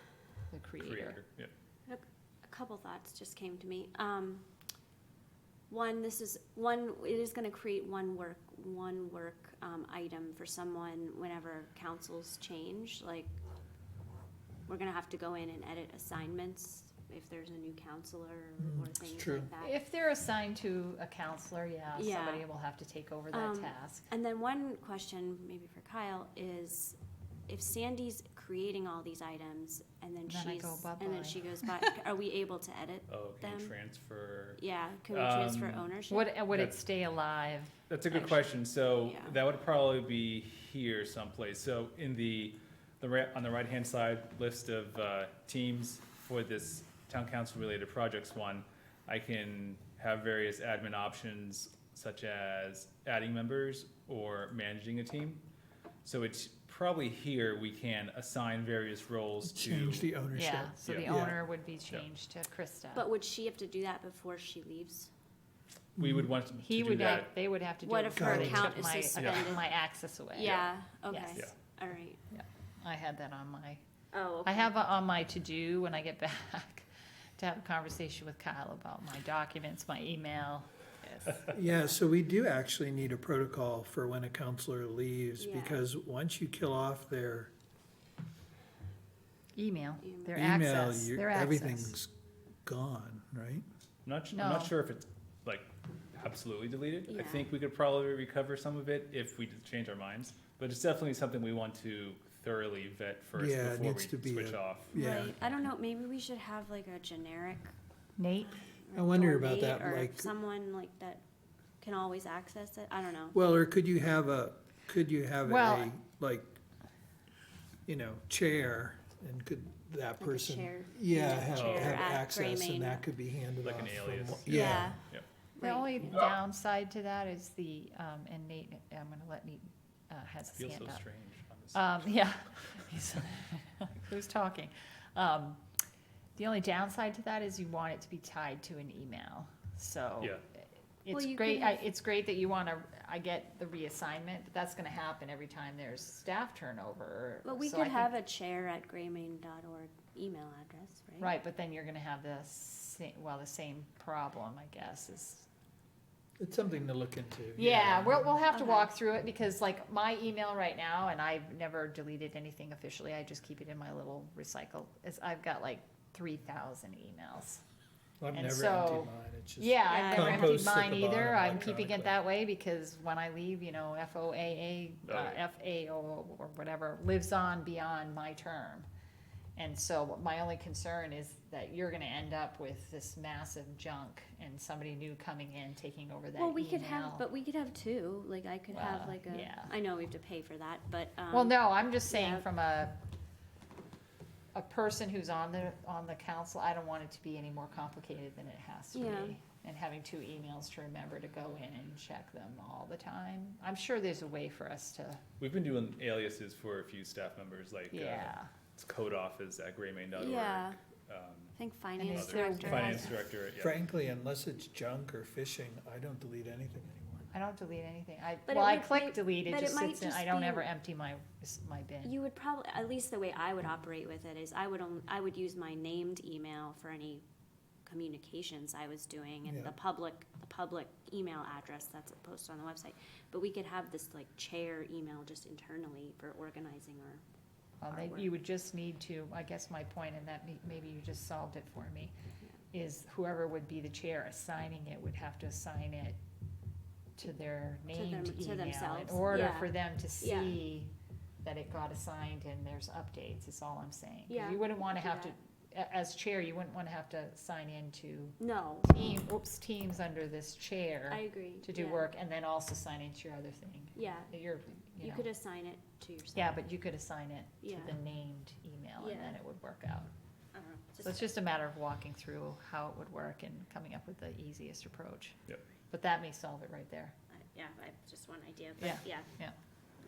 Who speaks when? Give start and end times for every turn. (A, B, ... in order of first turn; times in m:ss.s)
0:00.5-0:01.2 A
0:00.8-0:01.5 B
0:01.9-0:04.5 C
0:05.7-0:13.4 C
0:14.7-0:19.7 C
0:18.6-0:19.5 D
0:19.6-0:24.1 A
0:21.9-0:22.5 C
0:23.3-0:27.0 C
0:27.5-0:33.7 C
0:30.3-0:31.4 A
0:33.1-0:35.9 B
0:34.6-0:36.3 C
0:36.1-0:38.4 A
0:37.9-0:55.4 B
0:39.0-0:39.4 C
0:56.0-1:00.1 B
0:59.4-1:01.4 D
1:00.3-1:03.1 A
1:00.8-1:01.1 B
1:02.9-1:05.1 C
1:06.0-1:07.3 B
1:06.0-1:06.3 D
1:06.6-1:11.4 A
1:07.8-1:09.7 C
1:08.2-1:09.6 D
1:10.3-1:12.2 C
1:10.4-1:10.7 B
1:12.3-1:13.8 A
1:14.1-1:14.7 C
1:14.4-1:21.5 A
1:21.5-1:27.5 D
1:25.4-1:25.8 C
1:29.5-1:32.0 A
1:30.0-1:30.4 C
1:30.3-1:32.1 D
1:32.6-1:33.6 D
1:34.0-1:44.9 B
1:34.3-1:34.7 A
1:37.1-1:37.5 C
1:43.4-1:45.3 D
1:44.9-1:47.7 C
1:48.2-1:48.6 A
1:48.4-1:51.2 C
1:48.9-1:50.3 D
1:51.8-1:53.4 C
1:53.3-1:56.6 D
1:55.4-1:55.9 A
1:57.8-2:05.0 D
2:00.2-2:03.0 C
2:01.5-2:02.1 B
2:03.6-2:05.2 B
2:04.4-2:05.0 C
2:05.6-2:06.3 C
2:05.6-2:11.0 A
2:10.5-2:12.3 B
2:11.7-2:15.6 A
2:16.4-2:28.1 A
2:21.1-2:21.9 C
2:27.4-2:31.3 C
2:31.2-2:35.5 A
2:36.4-2:38.4 D
2:37.6-2:47.6 A
2:38.5-2:38.9 C
2:48.2-2:52.2 D
2:48.3-2:58.9 A
2:49.9-2:50.8 C
2:55.1-2:55.4 B
2:59.6-3:07.2 A
3:06.4-3:12.4 C
3:08.7-3:09.7 A
3:11.3-3:13.0 A
3:14.5-3:25.2 A
3:18.9-3:19.4 C
3:25.4-3:31.5 B
3:27.9-3:28.5 A
3:30.1-3:30.8 C
3:31.6-3:33.2 C
3:32.0-3:33.1 A
3:32.1-3:33.7 B
3:33.6-3:37.3 D
3:37.3-3:42.1 A
3:38.4-3:40.7 C
3:42.0-3:47.2 C
3:47.8-3:57.2 C
3:49.4-3:49.7 D
3:57.8-4:02.1 A
3:57.9-3:58.3 C
4:02.7-4:06.2 A
4:07.2-4:10.9 A
4:07.9-4:10.6 C
4:11.4-4:25.2 A
4:14.3-4:15.3 C
4:18.4-4:18.9 C
4:21.1-4:22.1 C
4:23.9-4:24.3 C
4:25.0-4:26.6 C
4:26.4-4:30.1 A
4:27.6-4:27.9 C
4:29.0-4:29.4 C
4:30.5-4:31.3 C
4:31.0-4:35.4 A
4:35.9-4:37.1 A
4:37.3-4:39.3 C
4:38.8-4:39.6 A